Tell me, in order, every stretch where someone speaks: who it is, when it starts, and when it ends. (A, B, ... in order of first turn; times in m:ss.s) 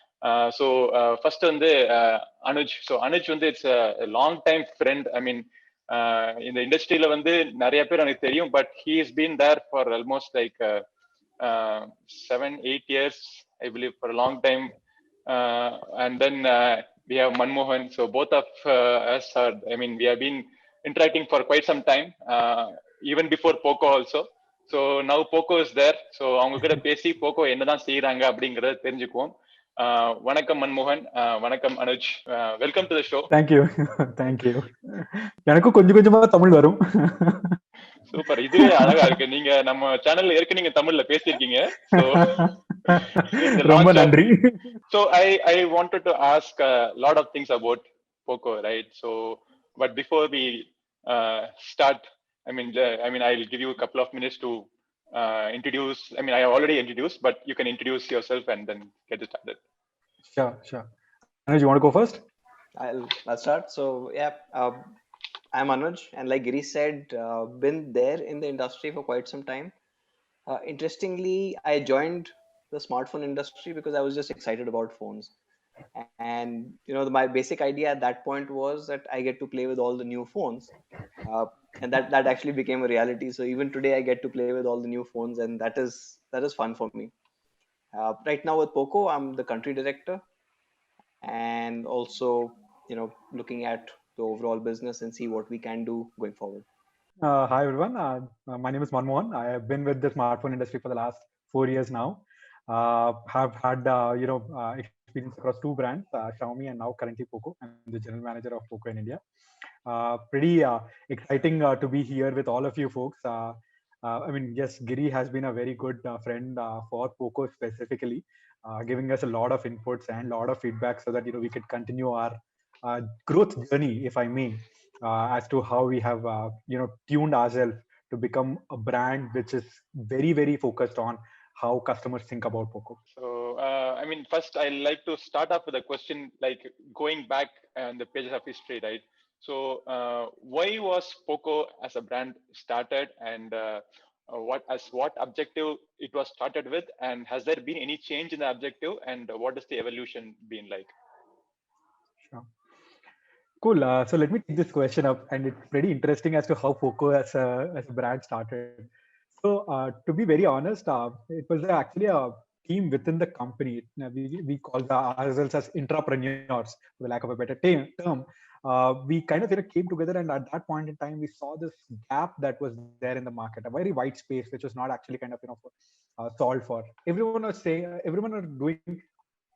0:00.2-0:10.8 A
0:11.4-0:14.7 A
0:15.3-0:33.3 A
0:33.3-0:37.6 B
0:38.1-0:44.2 A
0:38.6-0:39.1 B
0:41.9-0:44.7 B
0:44.9-0:59.6 A
1:00.2-1:00.9 B
1:01.5-1:02.2 B
1:02.8-1:04.9 C
1:05.5-1:09.7 C
1:10.5-1:15.3 C
1:15.9-1:27.1 C
1:27.9-1:30.2 C
1:31.2-1:36.7 C
1:37.2-1:49.2 B
1:49.8-2:13.0 B
2:13.1-2:30.9 A
2:32.2-2:32.5 B
2:33.6-2:59.0 B